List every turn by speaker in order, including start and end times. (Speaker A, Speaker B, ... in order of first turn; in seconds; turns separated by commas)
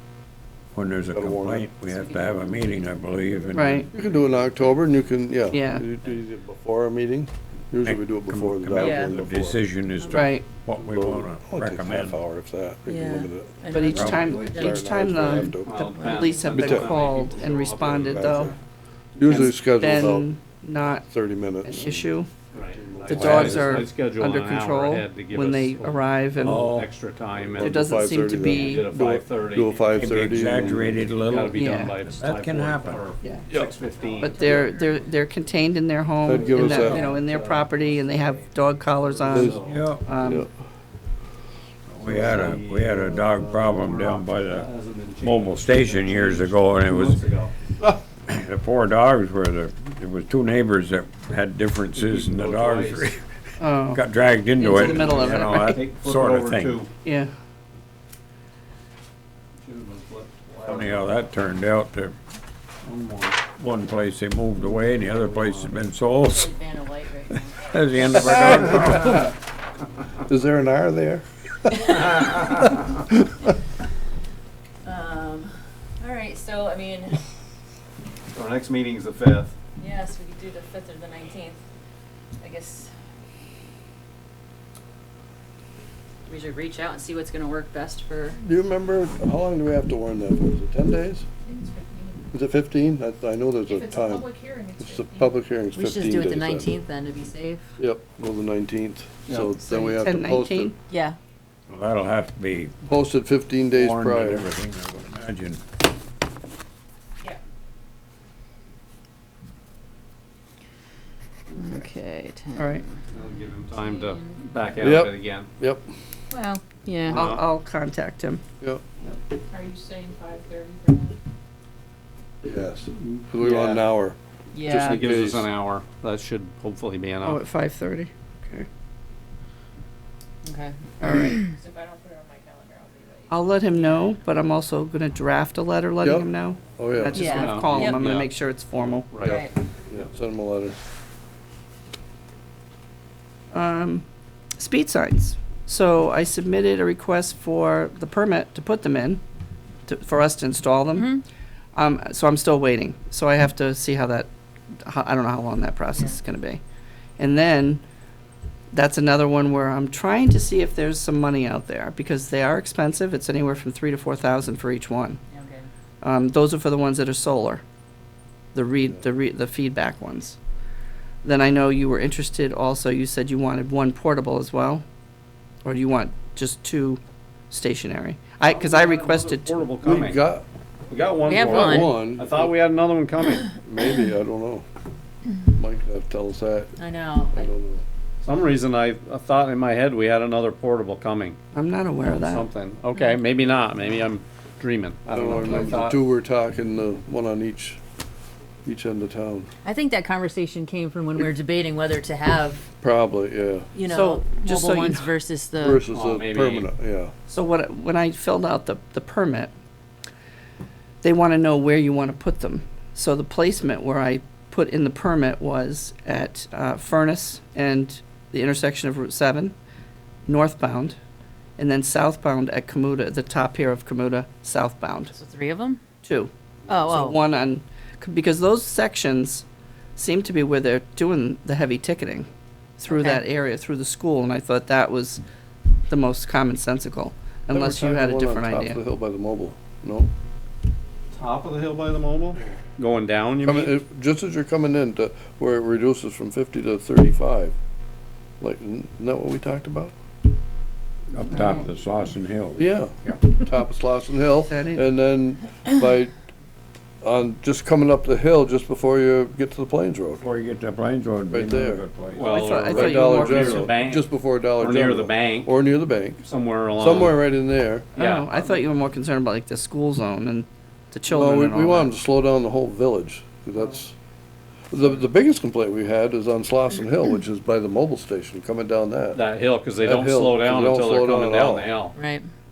Speaker A: 0.7-3.9, Speaker B: 1.1-1.7, Speaker C: 2.0-2.8, Speaker D: 3.5-3.9, Speaker B: 3.9-9.6, Speaker D: 5.5-5.8, Speaker A: 7.8-12.2, Speaker D: 10.1-10.5, Speaker B: 10.8-15.7, Speaker C: 12.9-14.8, Speaker D: 13.7-18.5, Speaker A: 13.9-14.6, Speaker E: 15.7-18.6, Speaker B: 16.5-17.0, Speaker B: 18.0-18.6, Speaker B: 19.2-20.3, Speaker D: 19.2-21.1, Speaker B: 21.0-22.0, Speaker D: 21.6-22.3, Speaker E: 22.5-30.1, Speaker B: 22.7-23.8, Speaker D: 23.1-26.6, Speaker A: 23.1-23.8, Speaker A: 26.4-26.9, Speaker B: 27.5-31.0, Speaker D: 27.6-28.9, Speaker A: 29.9-33.0, Speaker E: 31.2-34.6, Speaker D: 31.5-31.9, Speaker D: 34.2-40.5, Speaker F: 34.2-34.9, Speaker B: 36.2-37.1, Speaker E: 36.4-38.4, Speaker F: 36.6-37.0, Speaker E: 39.1-39.9, Speaker B: 39.3-39.6, Speaker A: 39.5-40.1, Speaker B: 40.2-40.5, Speaker A: 41.9-44.7, Speaker E: 42.0-47.5, Speaker B: 42.0-43.2, Speaker A: 45.2-47.2, Speaker A: 48.3-53.2, Speaker E: 52.0-53.1, Speaker D: 53.6-54.0, Speaker A: 53.9-56.8, Speaker D: 54.6-55.8, Speaker E: 54.6-56.9, Speaker D: 57.0-57.3, Speaker E: 59.6-61.2, Speaker A: 60.7-62.2, Speaker E: 62.8-63.4, Speaker A: 63.6-66.5, Speaker E: 64.6-65.8, Speaker C: 66.3-67.6, Speaker A: 67.6-69.3, Speaker B: 68.9-69.3, Speaker B: 70.3-71.2, Speaker C: 74.8-77.2, Speaker E: 78.3-79.6, Speaker C: 79.8-81.6, Speaker C: 82.4-82.9, Speaker C: 86.3-88.4, Speaker B: 88.4-91.3, Speaker F: 91.5-92.3, Speaker B: 92.3-96.7, Speaker F: 93.7-95.3, Speaker C: 95.7-97.7, Speaker B: 97.8-100.7, Speaker E: 99.3-99.6, Speaker D: 99.8-100.8, Speaker C: 100.9-101.2, Speaker A: 101.7-102.8, Speaker B: 102.9-104.5, Speaker A: 103.8-105.6, Speaker C: 111.6-112.7, Speaker D: 112.6-112.8, Speaker E: 113.1-115.5, Speaker C: 113.9-114.2, Speaker B: 114.8-115.8, Speaker C: 116.3-117.2, Speaker E: 117.1-117.4, Speaker D: 117.1-118.4, Speaker F: 119.5-121.2, Speaker B: 122.4-124.2, Speaker E: 123.0-123.8, Speaker C: 124.5-125.0, Speaker E: 124.7-127.4, Speaker B: 124.9-125.5, Speaker D: 127.2-128.7, Speaker C: 130.4-130.8, Speaker D: 131.0-131.5, Speaker F: 131.3-133.3, Speaker D: 133.3-139.1, Speaker B: 136.0-137.6, Speaker C: 137.2-138.0, Speaker E: 137.3-138.3, Speaker E: 139.1-139.4, Speaker B: 139.2-140.8, Speaker D: 143.5-144.1, Speaker D: 144.6-149.2, Speaker D: 149.9-151.2, Speaker D: 151.8-154.3, Speaker D: 154.8-156.6, Speaker D: 157.2-157.8, Speaker D: 158.7-165.2, Speaker C: 165.3-165.7, Speaker D: 166.0-167.6, Speaker D: 168.5-170.4, Speaker D: 171.2-174.8, Speaker D: 175.6-179.7, Speaker E: 178.4-180.2, Speaker B: 179.8-180.4, Speaker E: 180.9-183.5, Speaker C: 181.3-182.0, Speaker B: 181.4-182.5, Speaker B: 183.6-184.7, Speaker B: 185.5-186.8, Speaker C: 186.8-187.4, Speaker B: 187.3-187.8, Speaker E: 188.2-191.4, Speaker D: 191.5-192.5, Speaker E: 192.1-196.0, Speaker B: 195.1-197.8, Speaker B: 198.7-199.5, Speaker C: 199.7-202.6, Speaker B: 202.8-203.7, Speaker C: 203.7-205.8, Speaker D: 203.9-205.1, Speaker B: 205.6-207.1, Speaker E: 205.9-206.7, Speaker D: 207.3-209.5, Speaker D: 211.0-219.6, Speaker D: 220.3-221.0, Speaker D: 221.6-225.1, Speaker C: 225.1-225.8, Speaker D: 226.0-229.4, Speaker C: 226.7-227.2, Speaker D: 230.0-232.3, Speaker D: 232.8-235.2, Speaker C: 232.9-233.2, Speaker D: 235.9-238.8, Speaker B: 237.5-240.1, Speaker E: 241.1-243.8, Speaker B: 243.4-247.6, Speaker B: 248.4-249.9, Speaker A: 251.1-253.2, Speaker B: 252.6-256.1, Speaker D: 254.5-254.8, Speaker B: 257.0-260.2, Speaker A: 260.2-262.5, Speaker B: 261.3-261.9, Speaker E: 262.1-265.5, Speaker D: 262.3-263.7, Speaker B: 262.7-266.2, Speaker E: 266.2-267.2, Speaker B: 266.8-267.9, Speaker E: 268.0-268.4, Speaker D: 268.0-271.9, Speaker B: 271.1-273.9, Speaker B: 274.7-281.8, Speaker E: 279.1-282.0, Speaker C: 282.0-282.2